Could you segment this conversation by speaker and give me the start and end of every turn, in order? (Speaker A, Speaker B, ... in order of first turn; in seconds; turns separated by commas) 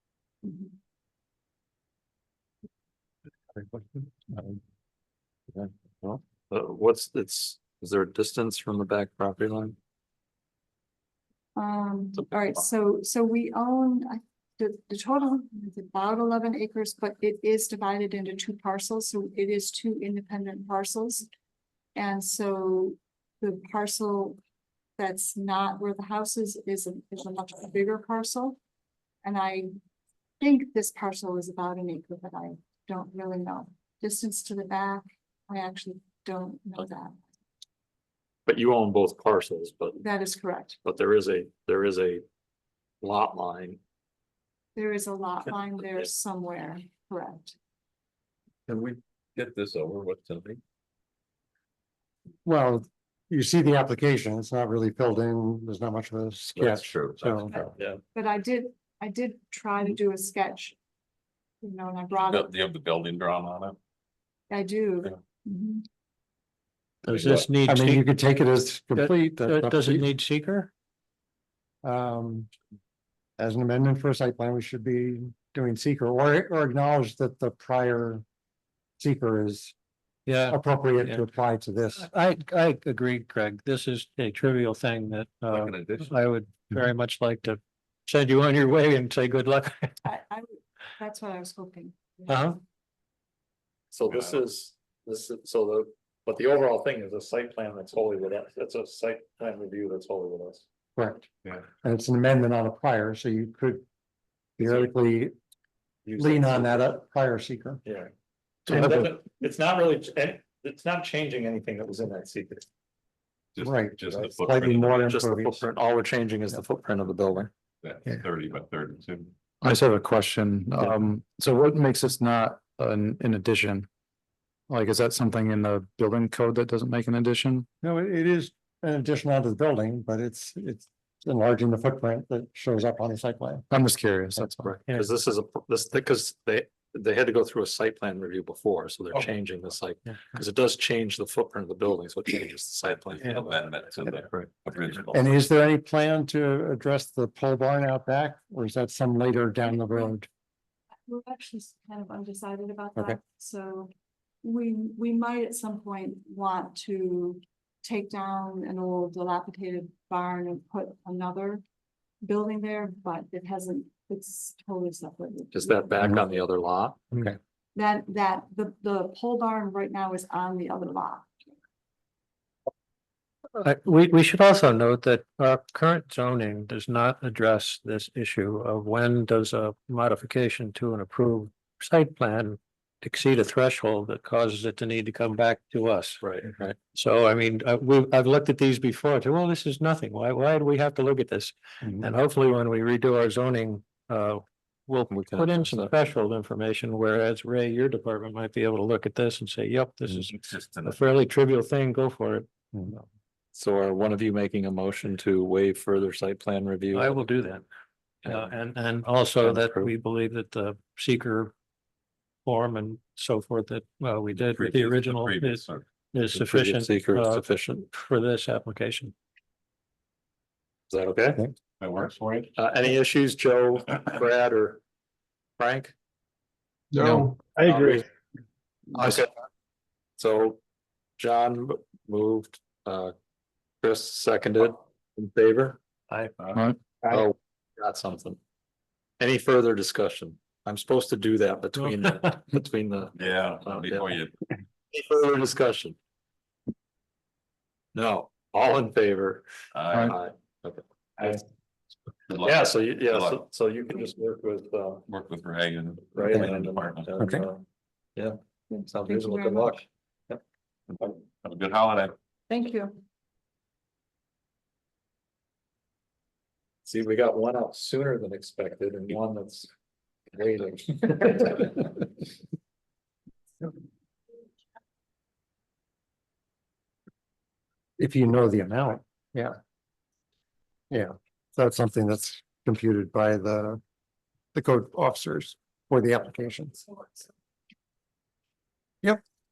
Speaker A: 0.4-0.7, Speaker B: 3.6-4.6, Speaker B: 5.5-9.8, Speaker A: 11.6-21.3, Speaker A: 21.9-24.4, Speaker A: 25.0-28.6, Speaker A: 29.2-29.7, Speaker A: 30.4-37.2, Speaker B: 38.5-40.0, Speaker A: 40.0-40.8, Speaker B: 40.8-42.2, Speaker B: 43.0-43.8, Speaker A: 44.8-47.5, Speaker C: 48.7-50.6, Speaker D: 52.5-57.6, Speaker C: 56.6-57.5, Speaker A: 57.5-60.8, Speaker A: 61.6-62.5, Speaker C: 62.2-63.8, Speaker A: 64.5-65.8, Speaker E: 67.0-68.1, Speaker D: 67.7-70.1, Speaker E: 69.0-70.7, Speaker D: 71.8-72.5, Speaker D: 73.4-78.2, Speaker D: 79.0-79.8, Speaker E: 80.3-81.2, Speaker D: 80.5-82.1, Speaker E: 82.0-90.0, Speaker C: 85.5-86.2, Speaker A: 90.0-92.5, Speaker E: 92.3-92.6, Speaker B: 93.9-100.7, Speaker C: 94.0-94.5, Speaker D: 101.0-101.3, Speaker D: 101.8-103.8, Speaker D: 104.6-105.3, Speaker B: 106.1-106.9, Speaker D: 106.2-107.8, Speaker B: 107.8-108.1, Speaker B: 108.7-112.7, Speaker D: 108.7-109.1, Speaker C: 113.5-115.1, Speaker D: 113.6-115.7, Speaker B: 115.0-117.5, Speaker C: 117.8-119.3, Speaker F: 119.6-123.9, Speaker F: 124.7-127.7, Speaker D: 127.8-134.6, Speaker F: 133.7-134.8, Speaker B: 134.6-143.6, Speaker E: 134.8-135.1, Speaker C: 143.1-145.3, Speaker D: 145.1-150.3, Speaker A: 151.1-153.9, Speaker A: 154.4-161.6, Speaker A: 162.2-166.4, Speaker B: 165.5-167.0, Speaker A: 167.8-171.3, Speaker E: 173.6-186.2, Speaker B: 186.2-186.8, Speaker E: 186.9-203.0, Speaker B: 195.1-195.9, Speaker C: 200.2-201.0, Speaker B: 203.5-207.2, Speaker E: 206.9-207.7, Speaker E: 208.2-211.5, Speaker B: 209.4-209.9, Speaker E: 212.4-219.1, Speaker C: 214.3-215.9, Speaker B: 216.3-217.8, Speaker B: 220.9-221.4, Speaker C: 221.8-222.5, Speaker B: 222.6-224.8, Speaker B: 225.6-225.9, Speaker F: 226.9-227.4, Speaker B: 227.6-228.1, Speaker B: 228.9-229.3, Speaker B: 230.2-230.6, Speaker B: 231.2-233.1, Speaker B: 233.8-235.8, Speaker F: 236.5-236.8, Speaker B: 237.1-238.4, Speaker B: 239.2-244.2, Speaker E: 241.9-242.3, Speaker C: 243.2-244.3, Speaker B: 244.9-246.0, Speaker B: 247.9-249.5, Speaker C: 249.7-250.2, Speaker B: 250.1-251.4, Speaker C: 252.3-253.4, Speaker B: 252.4-255.1, Speaker C: 255.1-257.1, Speaker B: 256.1-257.6, Speaker D: 257.2-257.4, Speaker B: 258.2-260.4, Speaker A: 258.7-259.8, Speaker C: 261.0-262.1, Speaker A: 262.5-263.0, Speaker B: 266.9-269.7, Speaker B: 270.3-272.1, Speaker D: 278.0-279.6, Speaker D: 280.9-283.8, Speaker D: 284.5-287.1